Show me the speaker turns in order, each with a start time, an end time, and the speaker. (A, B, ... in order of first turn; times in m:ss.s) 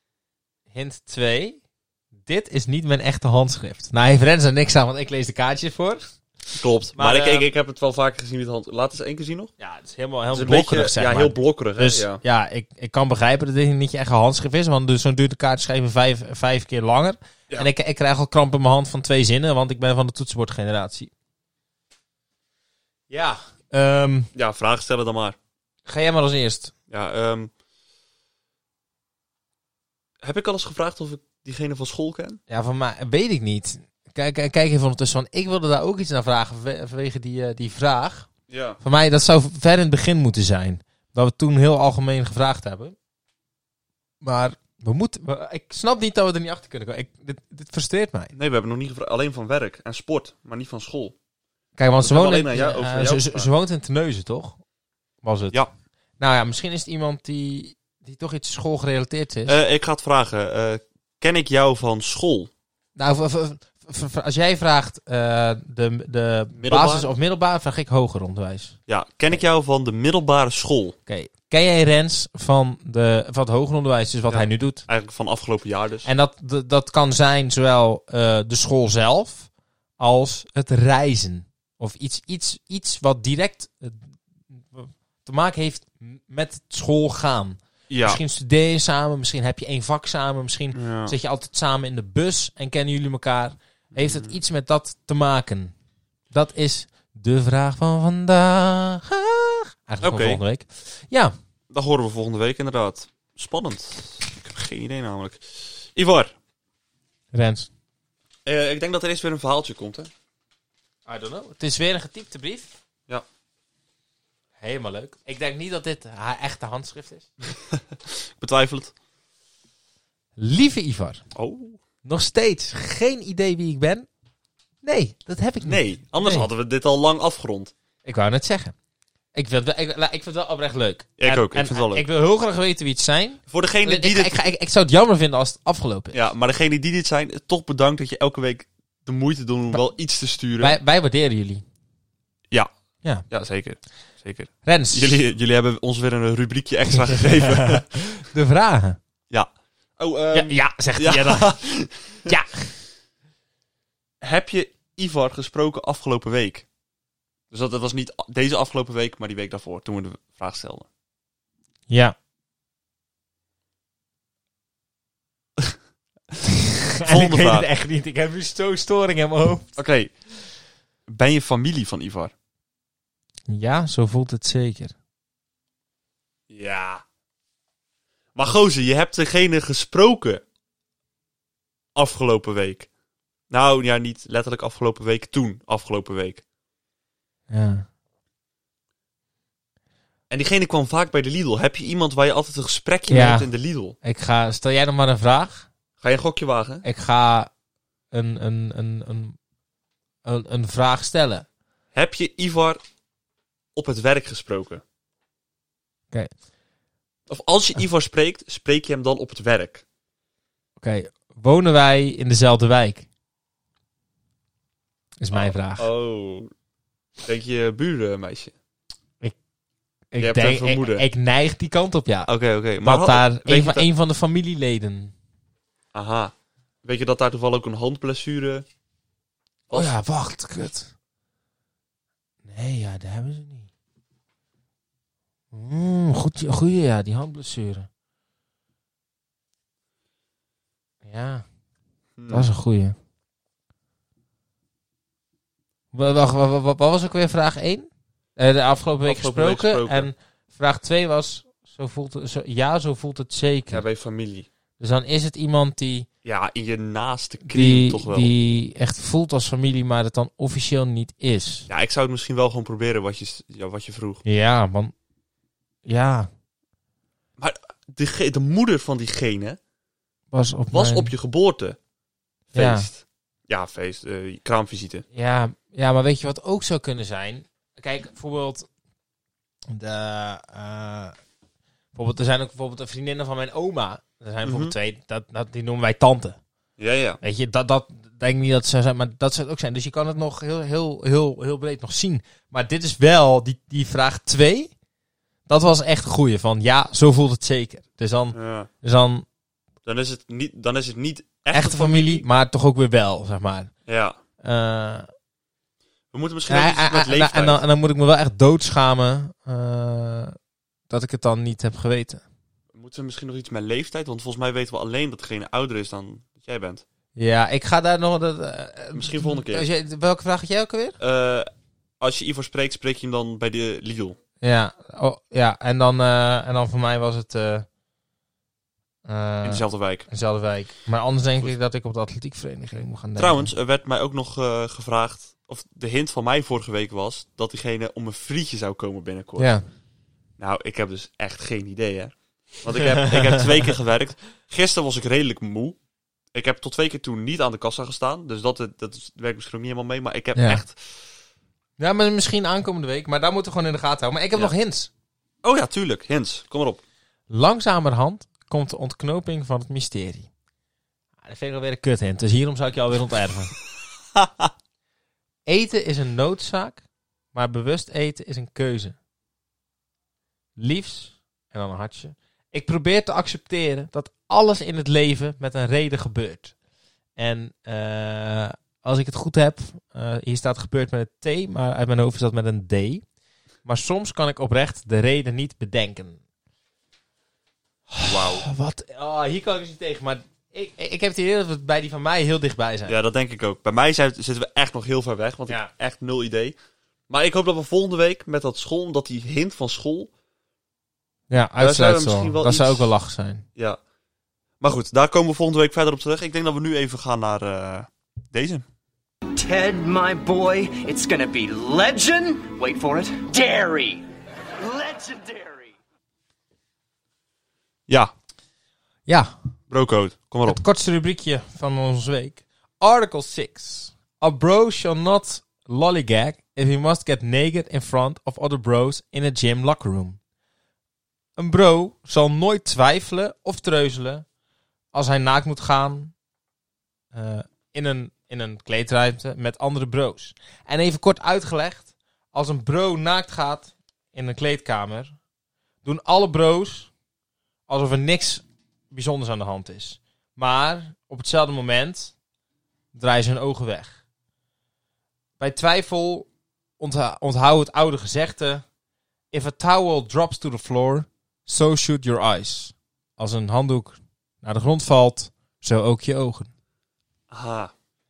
0:00.7-0:01.6 A
0:02.2-0:06.2 A
0:06.6-0:09.5 B
0:07.0-0:07.5 A
0:09.6-0:21.1 A
0:10.3-0:12.2 B
0:23.1-0:24.3 A
0:24.4-0:25.4 B
0:25.9-0:26.7 A
0:26.9-0:27.5 B
0:30.2-0:32.4 B
0:32.5-0:38.3 A
0:38.5-0:38.8 B
0:38.8-0:43.0 A
0:44.2-0:48.3 A
0:48.4-0:51.2 B
0:51.8-0:54.6 A
0:52.0-0:53.5 B
0:55.2-0:55.6 A
0:56.2-0:59.6 A
0:59.5-1:02.5 B
1:03.0-1:08.8 A
1:06.6-1:07.1 B
1:08.9-1:11.0 B
1:11.1-1:14.9 A
1:14.3-1:16.1 B
1:16.0-1:35.7 A
1:27.9-1:28.2 B
1:30.7-1:31.2 B
1:33.9-1:34.4 B
1:36.3-1:41.3 A
1:40.0-1:40.4 B
1:41.7-1:46.4 B
1:47.3-1:47.7 A
1:48.5-1:50.1 B
1:51.1-1:52.8 A
1:54.6-1:57.3 A
1:57.7-1:58.9 B
2:00.4-2:01.2 A
2:01.4-2:01.8 B
2:02.0-2:04.1 A
2:04.8-2:06.5 A
2:05.6-2:07.7 B
2:08.0-2:08.7 A
2:09.4-2:16.2 A
2:11.2-2:12.1 B
2:13.5-2:14.4 B
2:16.1-2:20.8 B
2:20.6-2:21.6 A
2:23.3-2:28.0 B
2:24.6-2:25.2 A
2:27.0-2:29.0 A
2:29.3-2:32.3 B
2:30.3-2:31.6 A
2:32.2-2:32.7 A
2:34.2-2:36.7 B
2:37.5-2:40.9 B
2:41.9-2:42.2 A
2:47.0-2:49.8 A
2:47.1-2:47.7 B
2:49.8-2:50.1 B
2:51.1-2:52.3 B
2:53.5-2:54.9 A
2:56.5-2:57.0 B
2:58.4-3:00.4 B
3:02.0-3:02.9 B
3:03.5-3:06.4 B
3:07.5-3:07.9 A
3:10.3-3:14.0 B
3:13.1-3:13.5 A
3:14.0-3:15.7 A
3:16.0-3:16.8 B
3:16.8-3:17.5 A
3:18.1-3:19.4 A
3:20.2-3:21.5 A
3:21.9-3:22.8 B
3:23.8-3:24.8 B
3:27.3-3:29.8 B
3:30.8-3:33.1 A
3:35.2-3:35.9 A
3:35.3-3:36.5 B
3:37.2-3:38.5 B
3:40.1-3:42.3 A
3:40.2-3:41.0 B
3:42.3-3:43.9 B
3:42.8-3:45.1 A
3:45.9-3:46.3 B
3:46.8-3:48.6 B
3:49.7-3:50.9 A
3:52.4-3:53.7 A
3:55.5-3:57.9 A
4:01.0-4:01.4 A
4:02.2-4:02.5 B
4:02.3-4:03.0 A
4:05.9-4:13.8 A
4:09.0-4:10.1 B
4:13.7-4:14.5 B
4:14.8-4:16.1 A
4:16.2-4:18.3 B
4:17.4-4:21.7 A
4:21.7-4:24.2 B
4:24.2-4:24.9 A
4:25.9-4:26.3 A
4:27.4-4:29.6 B
4:30.3-4:31.1 A
4:30.7-4:31.8 B
4:32.5-4:32.9 A
4:32.5-4:35.0 B
4:35.1-4:38.7 A
4:39.7-4:41.2 A
4:42.0-4:46.4 A
4:44.4-4:44.8 B
4:46.8-4:47.2 B
4:47.2-4:54.7 A
4:55.5-4:59.3 A
4:58.3-4:58.7 B
4:59.8-5:02.2 B
5:01.5-5:03.7 A
5:03.9-5:04.2 B
5:04.4-5:05.1 A
5:06.1-5:07.6 B
5:06.5-5:10.4 A
5:10.9-5:12.2 A
5:12.7-5:16.8 B
5:17.2-5:21.0 A
5:18.9-5:19.7 B
5:21.0-5:21.5 B
5:22.0-5:24.2 B
5:24.4-5:27.7 A
5:29.1-5:33.5 A
5:29.4-5:30.1 B
5:33.2-5:39.5 B
5:39.4-5:39.7 A
5:40.4-5:45.8 B
5:42.7-5:43.7 A
5:46.3-5:50.8 B
5:50.4-5:50.6 A
5:51.8-5:54.9 A
5:55.4-5:56.8 B
5:57.3-6:00.3 A
6:01.2-6:03.6 A
6:04.2-6:04.5 B
6:05.5-6:06.8 A
6:07.3-6:09.0 A
6:10.6-6:16.5 A
6:17.2-6:23.0 A
6:23.7-6:26.2 A
6:27.9-6:33.0 A
6:28.0-6:28.4 B
6:32.9-6:36.6 B
6:37.1-6:40.1 B
6:41.3-6:43.4 A
6:41.6-6:42.9 B
6:44.6-6:48.6 B
6:49.4-6:54.0 C
6:54.6-6:55.7 C
6:59.1-6:59.3 A
6:59.7-7:00.6 B
7:00.5-7:10.2 A
7:11.4-7:14.2 A
7:14.9-7:16.1 A
7:17.1-7:25.2 A
7:25.8-7:26.9 A
7:27.7-7:32.1 A
7:32.9-7:34.0 A
7:35.4-7:38.6 A
7:39.3-7:46.5 A
7:47.3-7:47.7 B